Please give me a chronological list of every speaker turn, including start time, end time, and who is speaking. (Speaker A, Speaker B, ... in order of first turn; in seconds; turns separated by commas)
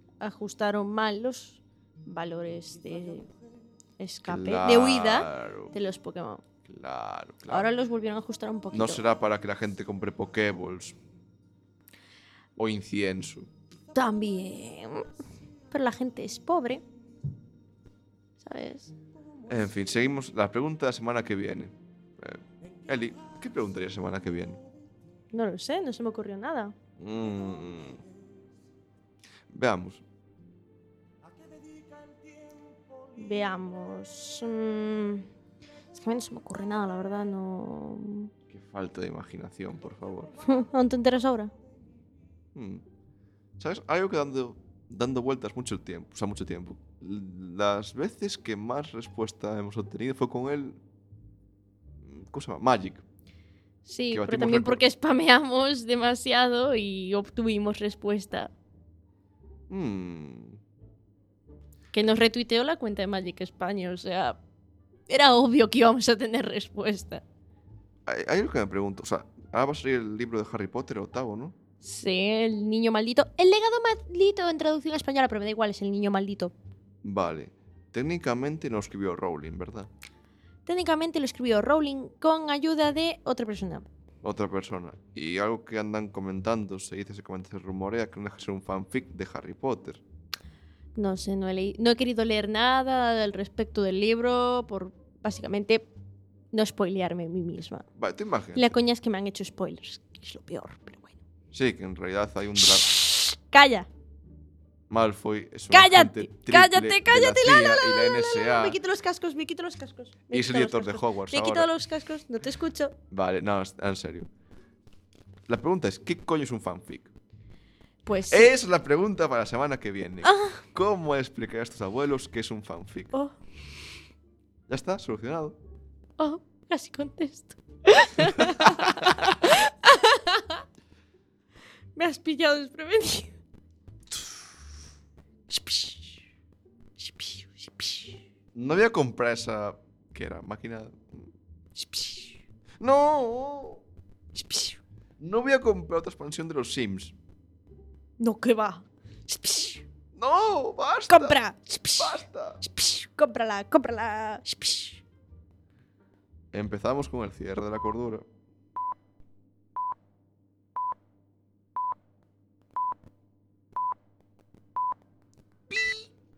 Speaker A: 0.2-3.3, Speaker A: 4.0-6.4, Speaker B: 4.3-5.7, Speaker B: 6.7-7.7, Speaker A: 7.5-9.0, Speaker B: 8.7-11.0, Speaker B: 12.6-13.5, Speaker A: 13.9-15.1, Speaker A: 15.7-16.8, Speaker A: 18.4-18.9, Speaker B: 19.5-24.6, Speaker A: 25.3-26.7, Speaker B: 27.0-28.0, Speaker B: 29.5-30.0, Speaker A: 33.2-35.3, Speaker A: 35.9-38.3, Speaker B: 38.5-40.3, Speaker A: 40.4-41.5, Speaker B: 42.5-42.9, Speaker B: 43.6-50.8, Speaker B: 52.0-53.0, Speaker A: 53.9-58.5, Speaker B: 54.1-54.8, Speaker B: 59.7-60.6, Speaker A: 61.9-64.4, Speaker A: 65.1-67.2, Speaker B: 68.1-71.6, Speaker A: 71.8-76.5, Speaker B: 77.0-79.9, Speaker A: 80.7-83.9, Speaker B: 84.2-90.0, Speaker A: 91.0-95.9, Speaker A: 96.5-97.8, Speaker B: 98.0-98.7, Speaker A: 98.6-101.2, Speaker B: 101.5-102.9, Speaker A: 102.6-103.9, Speaker B: 104.9-108.8, Speaker A: 105.7-113.0, Speaker B: 110.3-111.7, Speaker B: 113.1-114.3, Speaker B: 115.5-117.1, Speaker A: 118.0-118.5, Speaker B: 118.3-123.1, Speaker A: 120.2-120.6, Speaker B: 124.7-125.6, Speaker A: 126.2-130.6, Speaker B: 128.4-129.3, Speaker A: 132.0-133.4, Speaker A: 135.5-136.1, Speaker A: 137.0-138.2, Speaker B: 138.6-141.3, Speaker A: 141.8-142.3, Speaker B: 142.8-143.8, Speaker A: 144.3-144.8, Speaker B: 145.2-147.2, Speaker A: 148.2-149.8, Speaker B: 150.2-151.4, Speaker A: 151.1-155.0, Speaker B: 152.0-152.6, Speaker B: 156.5-158.2, Speaker B: 165.7-166.1